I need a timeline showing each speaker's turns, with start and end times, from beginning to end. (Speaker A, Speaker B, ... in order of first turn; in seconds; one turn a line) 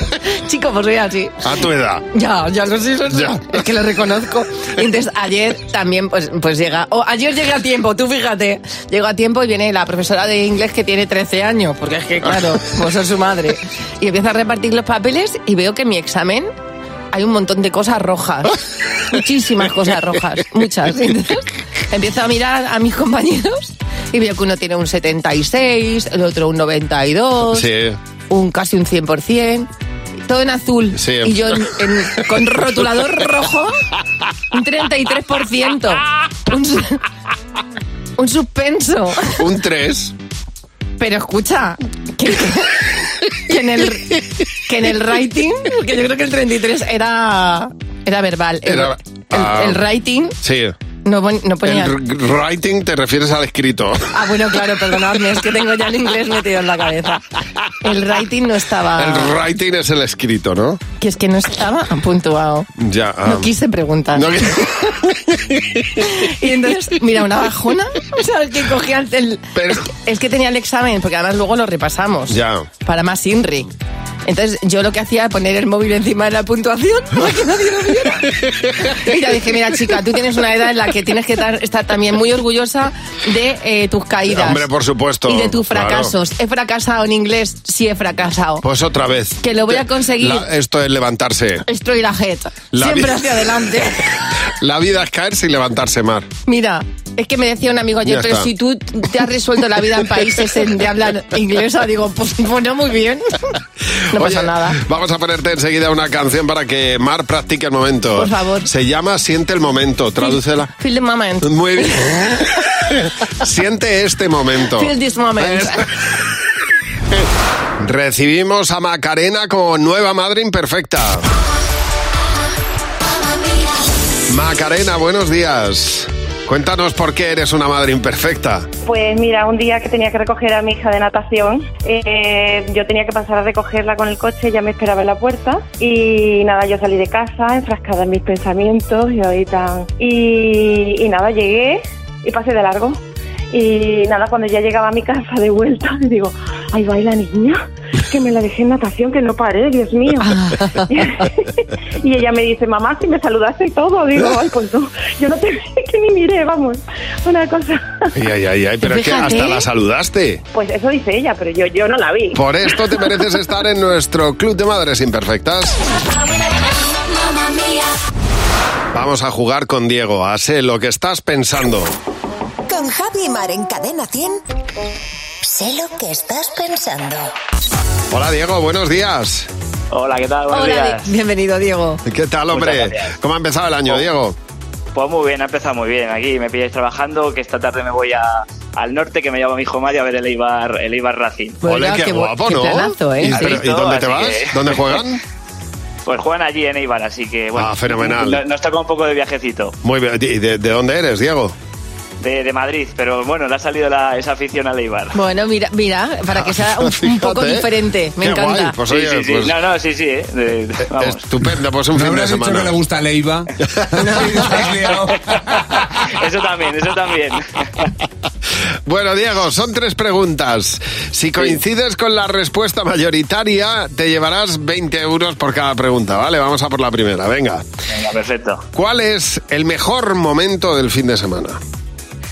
Speaker A: 0.3-1.4
Speaker B: 1.4-2.0
Speaker A: 2.1-16.5
Speaker B: 3.1-3.4
Speaker A: 17.1-18.6
Speaker A: 19.1-27.6
Speaker B: 27.5-28.0
Speaker A: 28.3-29.7
Speaker A: 30.3-33.7
Speaker B: 30.9-31.7
Speaker A: 34.5-37.0
Speaker A: 38.2-39.3
Speaker B: 39.3-40.1
Speaker A: 41.0-50.4
Speaker B: 48.6-49.8
Speaker B: 50.4-50.7
Speaker A: 51.0-51.9
Speaker B: 51.6-54.1
Speaker A: 54.1-57.2
Speaker A: 57.8-59.3
Speaker B: 59.0-60.8
Speaker A: 61.0-62.7
Speaker B: 62.8-63.5
Speaker A: 63.2-64.3
Speaker B: 64.1-66.0
Speaker A: 66.0-73.7
Speaker B: 69.5-69.8
Speaker B: 72.3-72.7
Speaker A: 74.2-78.3
Speaker B: 78.4-79.0
Speaker A: 78.9-84.6
Speaker B: 84.3-86.1
Speaker A: 85.3-88.6
Speaker B: 88.6-91.6
Speaker A: 89.4-90.4
Speaker A: 91.7-94.0
Speaker B: 92.7-93.5
Speaker B: 94.6-96.3
Speaker A: 96.5-103.2
Speaker B: 98.0-98.5
Speaker A: 104.1-104.8
Speaker B: 104.1-110.7
Speaker A: 108.2-108.7
Speaker A: 110.2-112.2
Speaker B: 111.4-112.5
Speaker B: 113.0-115.8
Speaker A: 114.8-115.8
Speaker B: 117.8-121.2
Speaker B: 124.3-128.7
Speaker C: 128.8-143.0
Speaker C: 143.5-158.1
Speaker A: 150.2-150.8
Speaker B: 158.1-160.4
Speaker A: 158.8-159.6
Speaker C: 160.5-162.4
Speaker B: 162.3-165.8
Speaker B: 168.9-171.9
Speaker D: 172.7-174.4
Speaker D: 175.4-177.3
Speaker B: 178.1-179.5
Speaker E: 179.9-181.1
Speaker A: 180.5-182.0
Speaker B: 182.1-184.3
Speaker E: 182.5-183.1
Speaker E: 184.9-191.6
Speaker A: 191.6-193.5
Speaker B: 191.6-195.2
Speaker E: 193.3-194.9
Speaker E: 196.1-199.7
Speaker B: 197.6-198.4
Speaker B: 199.8-201.5
Speaker E: 202.2-205.1
Speaker A: 205.1-208.8
Speaker B: 206.4-207.7
Speaker B: 208.2-209.6
Speaker E: 208.9-211.2
Speaker B: 211.0-212.7
Speaker F: 211.9-215.3
Speaker A: 214.0-214.4
Speaker E: 216.1-217.4
Speaker B: 218.8-227.6
Speaker E: 227.9-228.6
Speaker B: 228.7-231.6